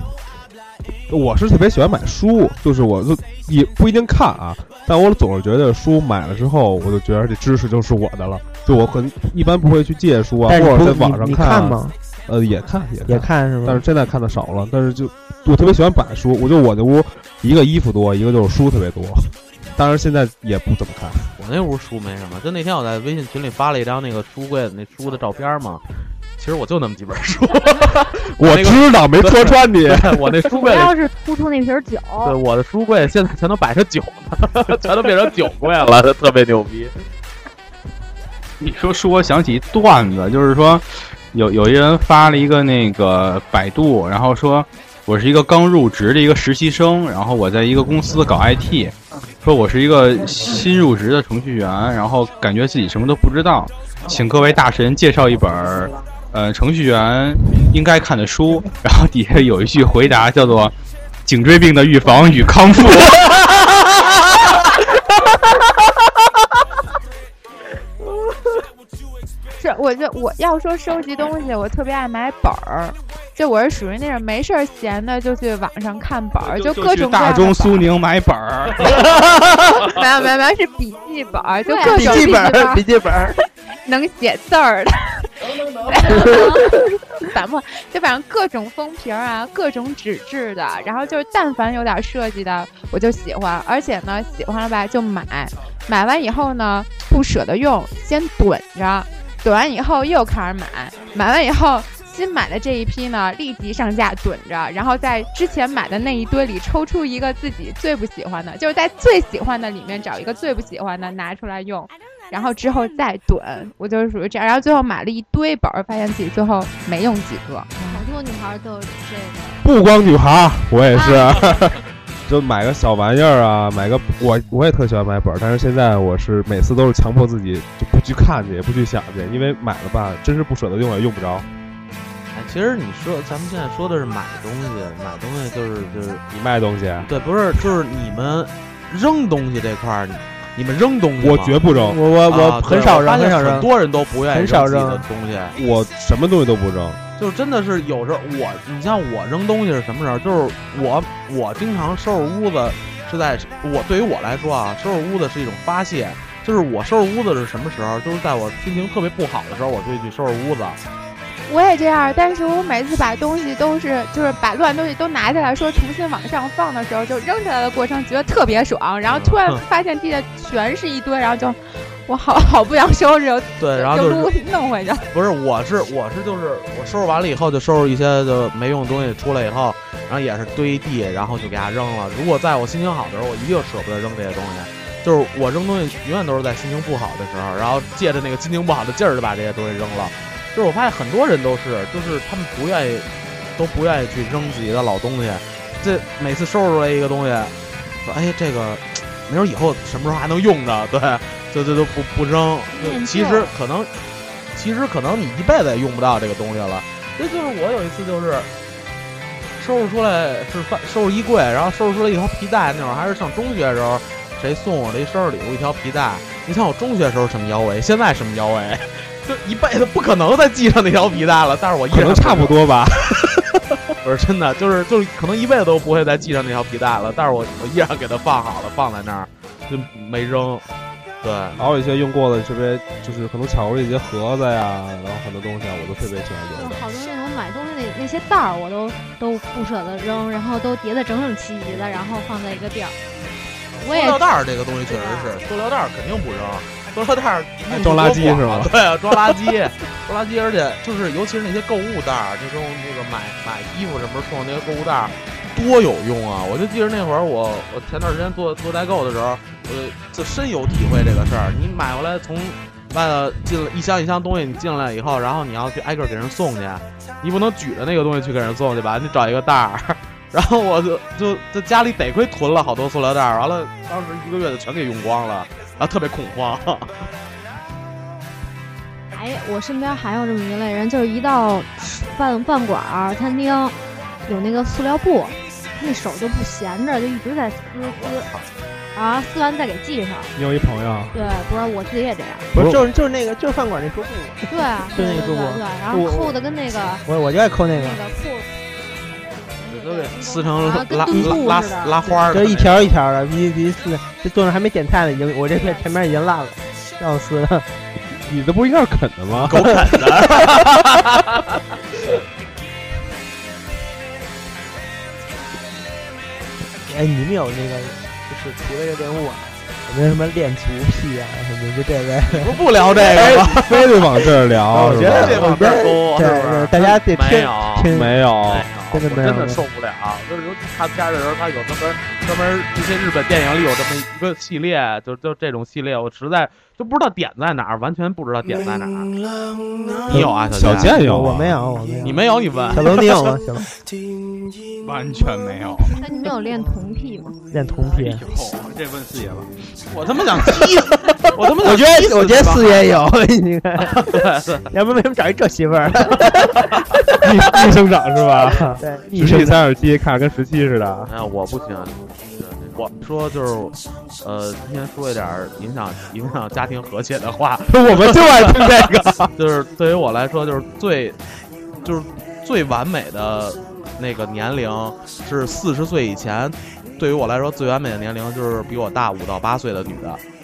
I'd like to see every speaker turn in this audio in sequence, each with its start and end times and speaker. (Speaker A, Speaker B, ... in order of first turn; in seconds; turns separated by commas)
Speaker A: 1.1-21.3, Speaker B: 10.5-11.9, Speaker B: 13.1-13.8, Speaker C: 21.4-25.8, Speaker C: 26.4-30.9, Speaker A: 28.4-30.4, Speaker D: 30.5-32.4, Speaker C: 32.2-36.9, Speaker E: 38.6-60.7, Speaker E: 61.3-63.7, Speaker F: 69.6-77.9, Speaker E: 76.4-79.0, Speaker F: 78.9-82.8, Speaker D: 81.6-82.8, Speaker B: 81.9-83.4, Speaker F: 83.8-118.0, Speaker D: 86.2-86.8, Speaker D: 117.8-119.6, Speaker A: 119.6-131.5, Speaker D: 120.9-121.7, Speaker C: 132.3-136.2, Speaker A: 136.3-137.1, Speaker C: 137.0-141.6, Speaker A: 141.2-142.0, Speaker B: 141.7-143.7, Speaker C: 142.3-145.6, Speaker B: 144.3-145.1, Speaker A: 145.6-147.0, Speaker C: 147.2-160.8, Speaker F: 161.5-175.1, Speaker C: 169.1-169.6, Speaker C: 173.6-174.3, Speaker C: 175.1-203.9, Speaker D: 202.7-203.5, Speaker C: 204.5-208.5, Speaker C: 209.6-222.6, Speaker A: 221.9-223.9, Speaker C: 224.0-230.7, Speaker C: 231.2-231.6, Speaker A: 231.6-236.8, Speaker D: 236.6-243.0, Speaker D: 243.8-244.2, Speaker C: 243.8-277.1, Speaker D: 244.9-245.4, Speaker A: 247.7-249.4, Speaker D: 279.1-288.3, Speaker C: 287.8-288.5, Speaker D: 288.9-290.3, Speaker A: 290.4-291.2, Speaker D: 291.1-292.5, Speaker B: 292.5-296.4, Speaker A: 292.6-292.8, Speaker D: 294.5-297.0, Speaker B: 297.1-298.0, Speaker D: 297.7-298.5, Speaker D: 299.1-302.4, Speaker C: 299.7-302.9, Speaker B: 302.3-307.7, Speaker D: 305.6-305.9, Speaker A: 308.2-309.7, Speaker C: 309.4-311.6, Speaker B: 316.8-322.6, Speaker C: 322.3-324.2, Speaker A: 323.0-325.4, Speaker B: 324.7-328.2, Speaker C: 324.9-327.9, Speaker A: 327.9-328.7, Speaker C: 328.4-339.1, Speaker B: 328.9-329.6, Speaker C: 340.0-340.9, Speaker A: 340.1-341.6, Speaker B: 340.8-343.7, Speaker C: 342.0-343.2, Speaker E: 344.8-346.0, Speaker D: 345.8-347.4, Speaker B: 347.5-348.2, Speaker E: 347.9-349.5, Speaker C: 349.9-352.9, Speaker B: 351.6-354.1, Speaker C: 353.8-354.7, Speaker B: 354.7-356.8, Speaker A: 357.2-361.1, Speaker B: 358.8-359.6, Speaker C: 361.1-371.2, Speaker A: 367.7-369.3, Speaker C: 371.8-380.2